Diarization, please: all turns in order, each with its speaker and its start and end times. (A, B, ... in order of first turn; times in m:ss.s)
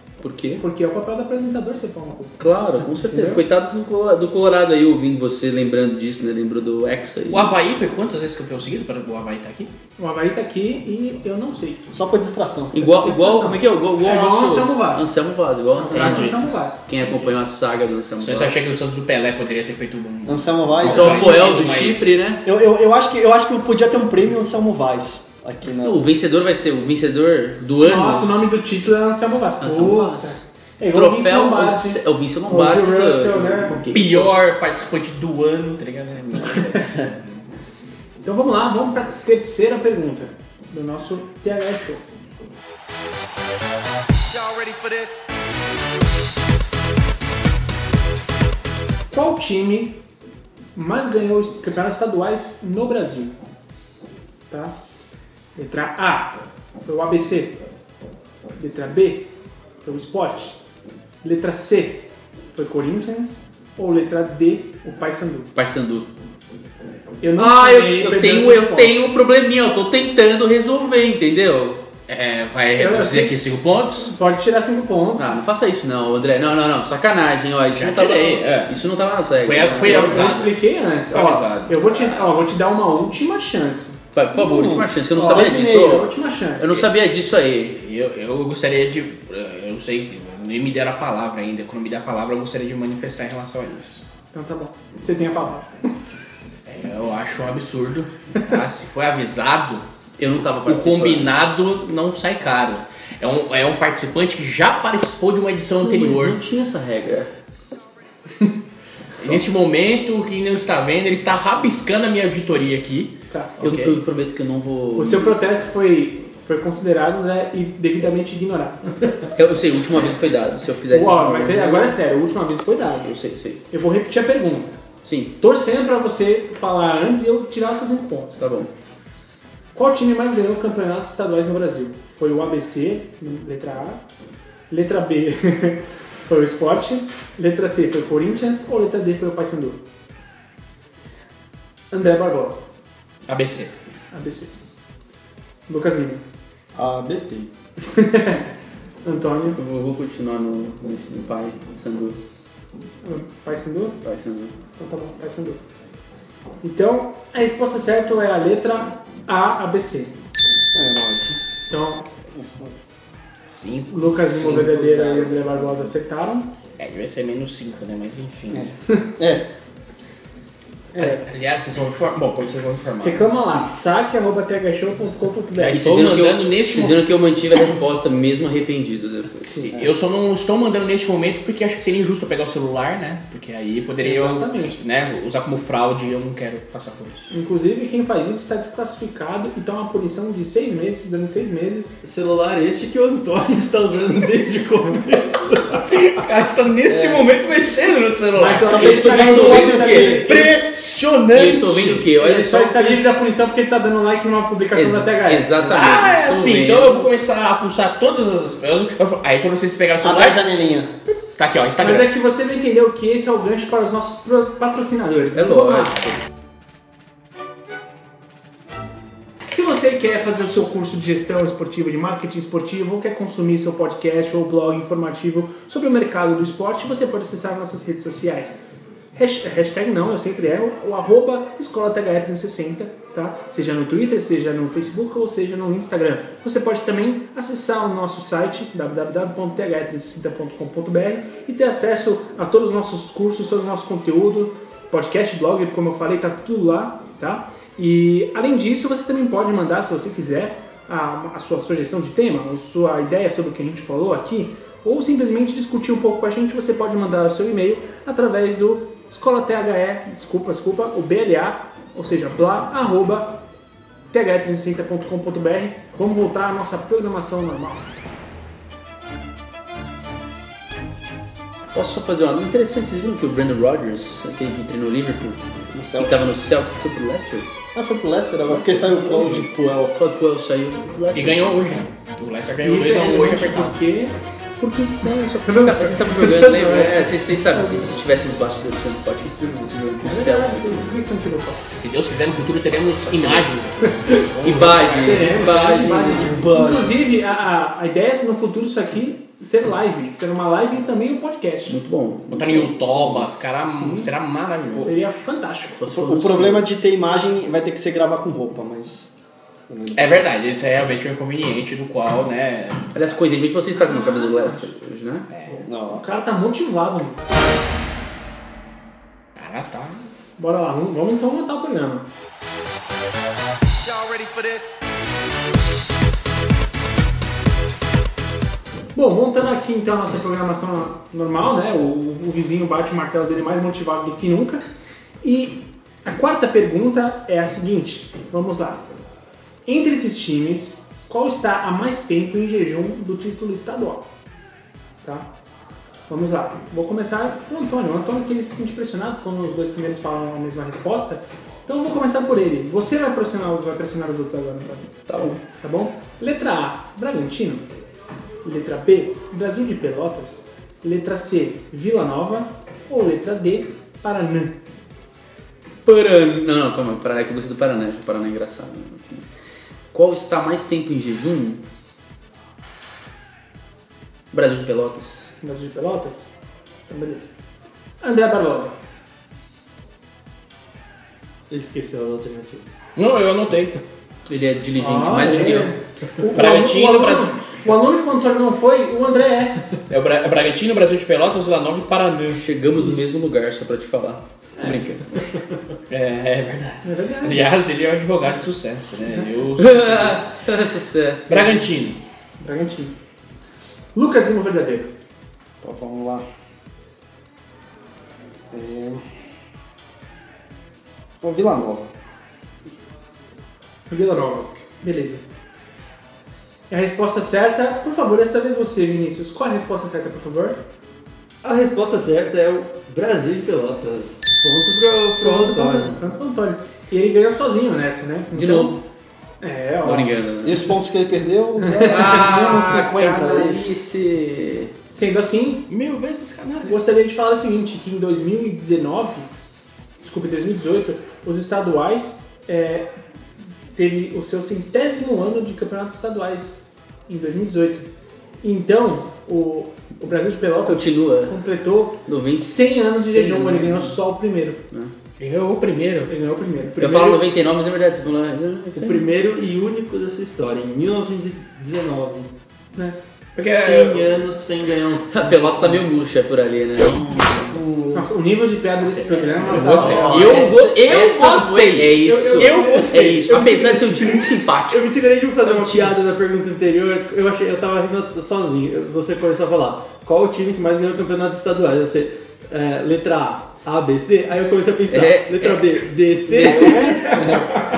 0:00.2-0:00.6 A
0:00.6-0:02.4 B
0:02.4-0:07.6 A
0:03.0-0:03.4 B
0:07.3-0:09.7 C
0:10.0-0:11.9 B
0:11.9-0:12.8 D
0:12.7-0:18.6 A
0:12.8-0:15.1 B
0:15.8-0:16.9 B
0:15.9-0:16.4 C
0:18.2-0:22.1 C
0:20.3-0:21.5 D
0:20.8-0:22.4 A
0:22.4-0:26.1 D
0:25.8-0:28.3 A
0:27.8-0:33.8 B
0:29.6-0:30.4 A
0:30.9-0:34.3 A
0:33.9-0:37.4 C
0:36.5-0:36.8 B
0:38.2-0:42.0 B
0:44.3-0:45.2 E
0:49.1-0:50.0 B
0:50.8-0:53.4 B
0:54.5-0:54.8 B
0:55.6-0:57.6 B
0:58.6-0:59.3 B
0:59.8-1:00.6 B
1:01.2-1:05.5 B
1:05.6-1:06.1 A
1:07.2-1:09.0 B
1:07.4-1:11.8 A
1:12.1-1:14.1 C
1:12.8-1:13.4 B
1:14.0-1:15.5 B
1:15.2-1:20.4 A
1:17.8-1:18.8 C
1:19.4-1:20.6 C
1:19.8-1:24.0 B
1:21.1-1:22.3 C
1:24.1-1:27.8 A
1:24.3-1:26.1 D
1:25.1-1:26.9 B
1:27.8-1:34.0 C
1:34.3-1:35.7 B
1:36.7-1:39.8 C
1:40.2-1:41.3 A
1:40.7-1:46.4 C
1:45.8-1:47.3 A
1:49.2-1:54.0 C
1:53.3-1:53.6 B
1:53.6-1:55.4 A
1:55.0-1:59.0 B
1:59.4-2:02.0 A
2:00.9-2:03.1 B
2:03.0-2:03.6 A
2:03.7-2:04.8 B
2:05.0-2:05.4 A
2:05.4-2:08.4 B
2:08.4-2:08.7 A
2:09.7-2:14.0 B
2:14.7-2:19.8 B
2:21.9-2:22.6 B
2:23.3-2:23.7 C
2:24.1-2:24.5 B
2:25.7-2:26.2 B
2:26.8-2:27.5 D
2:27.8-2:28.4 B
2:29.0-2:29.6 B
2:29.5-2:32.2 A
2:33.0-2:34.0 B
2:34.0-2:34.5 A
2:34.8-2:35.6 B
2:36.6-2:40.1 B
2:40.7-2:41.4 D
2:41.7-2:42.1 B
2:42.3-2:42.8 D
2:43.5-2:44.7 C
2:43.9-2:46.5 B
2:44.4-2:45.7 D
2:46.8-2:48.7 C
2:48.5-2:49.5 D
2:50.9-2:51.3 B
2:51.0-2:53.3 C
2:53.0-2:55.9 B
2:55.6-2:57.0 C
2:55.7-2:59.7 A
2:59.4-2:59.8 B
2:59.8-3:07.3 C
3:03.8-3:04.8 B
3:07.3-3:12.0 B
3:12.0-3:15.9 F
3:15.9-3:22.0 C
3:16.9-3:17.2 D
3:18.4-3:20.4 B
3:18.7-3:20.3 A
3:18.7-3:21.7 D
3:21.3-3:23.0 A
3:22.2-3:25.8 B
3:24.7-3:27.1 A
3:25.6-3:30.4 C
3:30.0-3:31.2 D
3:31.4-3:32.1 C
3:31.8-3:36.0 B
3:35.3-3:36.2 A
3:39.5-3:48.6 B
3:49.2-4:23.4 B
4:24.1-4:27.9 B
4:31.7-4:35.4 A
4:35.7-4:36.3 D
4:36.0-4:37.5 A
4:37.7-4:39.9 D
4:38.4-4:41.6 A
4:41.1-4:43.8 C
4:42.6-4:48.0 B
4:44.9-4:50.9 A
4:50.0-4:51.7 B
4:51.7-4:55.4 C
4:53.2-4:53.4 A
4:54.4-4:56.6 A
4:55.0-4:56.0 F
4:55.0-5:01.8 B
4:56.2-4:57.0 D
5:01.7-5:03.3 A
5:02.3-5:04.9 C
5:03.6-5:04.1 B
5:04.8-5:05.8 B
5:05.8-5:06.7 A
5:05.9-5:09.1 D
5:09.7-5:10.3 D
5:10.0-5:12.9 C
5:12.9-5:15.3 A
5:13.7-5:14.7 B
5:15.3-5:15.6 C
5:15.5-5:17.2 B
5:15.6-5:16.0 D
5:19.4-5:20.1 C
5:20.4-5:22.0 B
5:23.8-5:24.8 E
5:28.9-5:34.6 B
5:35.2-5:38.8 B
5:39.7-5:44.1 B
5:45.0-5:45.3 B
5:46.1-5:57.7 B
5:55.1-5:55.4 A
5:58.4-6:04.6 B
6:05.8-6:09.3 A
6:09.9-6:11.6 A
6:14.3-6:15.3 A
6:15.4-6:16.3 B
6:16.9-6:17.3 B
6:18.0-6:18.8 B
6:21.5-6:22.8 F
6:23.0-6:23.8 C
6:24.3-6:25.8 A
6:24.8-6:29.6 B
6:26.3-6:27.4 C
6:29.9-6:32.4 C
6:32.3-6:35.3 A
6:35.9-6:40.3 C
6:36.8-6:37.4 B
6:39.6-6:41.7 A
6:41.3-6:42.0 C
6:42.4-6:42.9 B
6:44.0-6:44.9 B
6:45.6-6:46.2 D
6:48.5-6:49.0 D
6:51.2-6:51.9 D
6:53.9-6:55.2 B
6:56.7-7:00.6 B
7:01.4-7:06.1 F
7:05.2-7:08.8 B
7:08.3-7:08.8 A
7:09.4-7:10.1 B
7:09.8-7:10.7 A
7:10.4-7:13.7 D
7:11.6-7:12.3 B
7:11.8-7:14.7 A
7:14.9-7:15.7 B
7:15.7-7:16.8 C
7:16.6-7:19.3 B
7:20.0-7:22.9 B
7:23.8-7:27.9 B
7:28.4-7:34.6 B
7:30.7-7:31.4 A
7:32.1-7:34.0 A
7:35.2-7:36.1 C
7:36.1-7:37.2 B
7:36.8-7:39.1 A
7:38.8-7:42.3 F
7:43.4-7:44.1 C
7:43.4-7:45.9 F
7:45.1-7:47.6 A
7:47.6-7:47.9 D
7:47.9-7:50.4 B
7:49.2-7:53.5 C
7:49.4-7:50.4 D
7:49.8-7:55.9 A
7:52.0-8:07.4 F
8:04.9-8:07.2 A
8:06.4-8:07.4 B
8:07.2-8:07.4 D